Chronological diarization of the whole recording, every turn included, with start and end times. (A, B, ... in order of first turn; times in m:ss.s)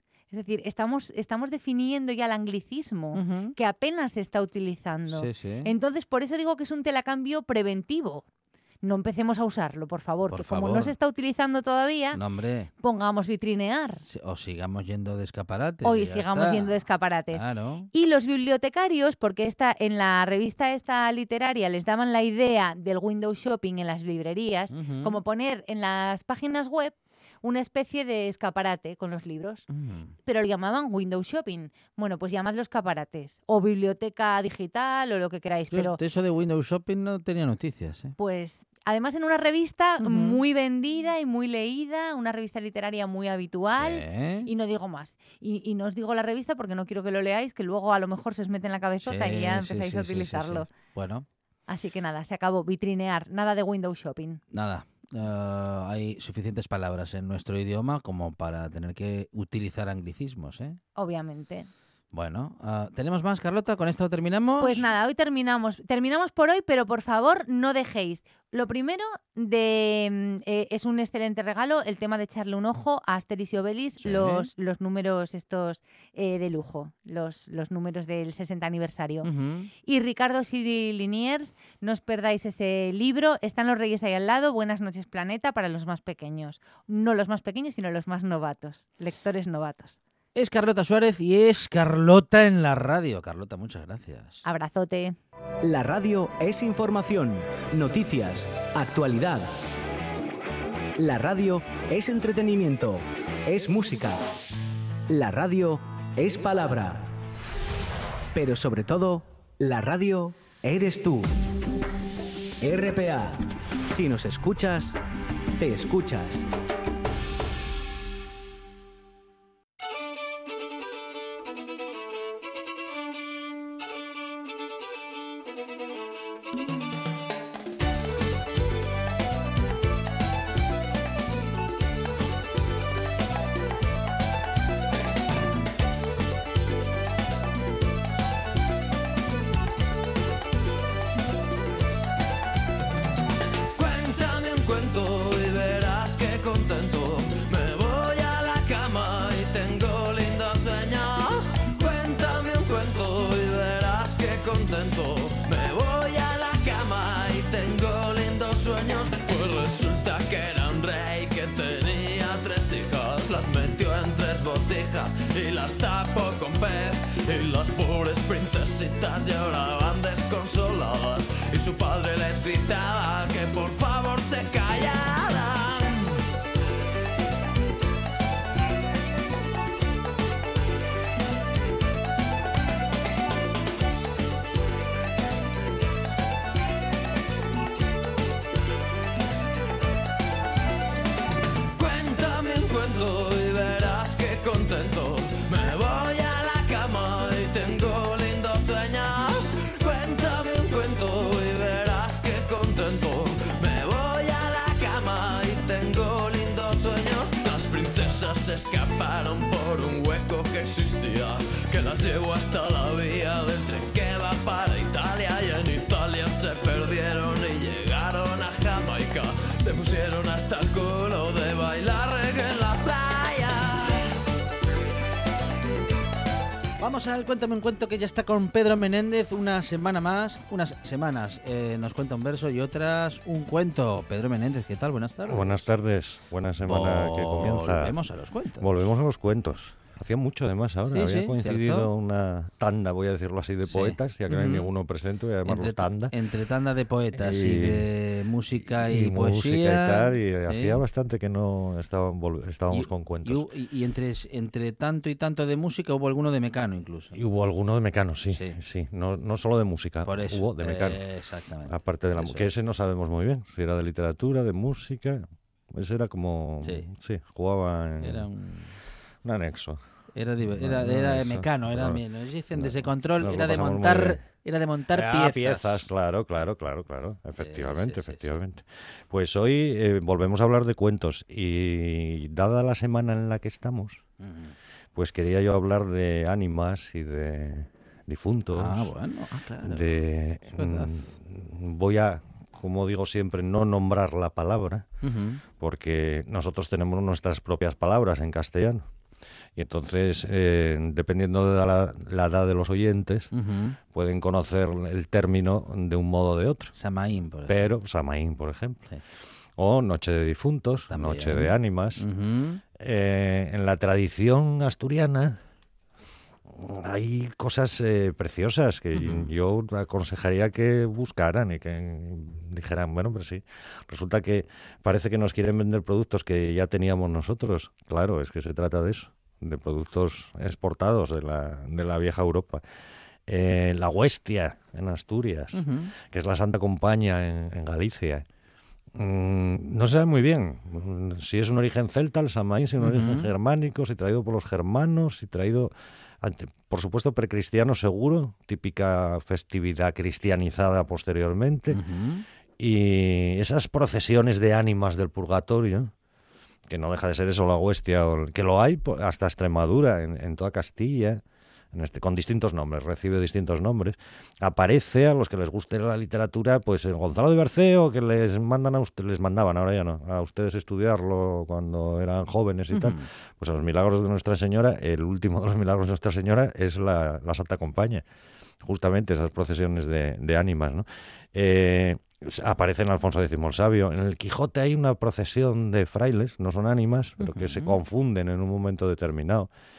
0:00.3-0:08.2 A
0:03.1-0:03.5 B
0:05.1-0:05.7 B
0:08.8-0:12.2 A
0:10.3-0:10.9 B
0:12.1-0:12.7 B
0:12.8-0:14.0 A
0:14.1-0:16.7 B
0:15.8-0:29.6 A
0:17.3-0:17.9 B
0:24.7-0:25.2 B
0:29.7-0:30.1 B
0:30.2-0:36.0 A
0:35.7-0:38.1 B
0:38.2-0:50.7 A
0:40.0-0:40.4 B
0:43.7-0:44.5 B
0:49.0-0:51.3 B
0:51.7-0:54.4 A
0:54.5-1:00.8 B
1:01.0-1:01.7 A
1:02.1-1:04.9 B
1:04.6-1:19.3 A
1:14.0-1:14.5 B
1:19.2-1:19.7 B
1:19.8-1:30.0 A
1:30.3-1:34.4 B
1:34.4-1:35.2 A
1:35.6-1:39.6 C
1:41.0-1:44.3 C
1:45.1-1:47.1 C
1:48.3-1:51.5 C
1:52.6-1:55.0 C
1:55.6-1:56.5 C
2:23.8-2:56.2 D
3:11.8-3:44.2 D
3:46.8-3:55.7 B
3:55.3-3:58.0 E
3:56.6-3:58.8 B
3:58.6-4:06.1 E
4:00.9-4:01.9 B
4:03.6-4:04.7 B
4:05.4-4:10.8 B
4:07.1-4:07.9 E
4:08.6-4:13.4 E
4:12.7-4:17.1 B
4:17.1-4:21.0 E
4:18.3-4:18.6 B
4:20.0-4:22.5 B
4:21.7-4:28.3 E
4:26.6-4:26.9 B
4:28.0-4:28.7 B
4:29.2-4:29.8 E
4:30.1-4:35.9 B
4:30.4-4:34.3 E
4:34.9-4:44.0 E
4:37.4-4:38.3 B
4:44.2-4:44.5 B
4:44.9-4:48.9 E
4:48.5-4:49.9 B
4:49.6-4:54.9 E
4:50.5-4:50.9 B
4:55.0-4:55.4 B
4:55.5-4:58.8 E
4:59.6-5:03.3 E
5:03.3-5:03.8 B
5:03.9-5:06.7 E
5:06.8-5:07.7 B
5:07.5-5:08.9 E
5:09.6-5:12.1 E
5:10.9-5:12.6 B
5:12.8-5:15.4 E
5:16.5-5:32.6 E
5:18.9-5:19.3 B
5:33.3-5:38.2 E
5:35.5-5:35.9 B
5:38.9-5:51.8 E
5:42.8-5:43.3 B
5:51.7-5:52.2 B
5:52.6-5:55.9 E
5:56.7-6:01.2 E
6:01.7-6:18.0 E
6:12.7-6:13.0 B
6:18.6-6:29.5 E
6:27.2-6:27.8 B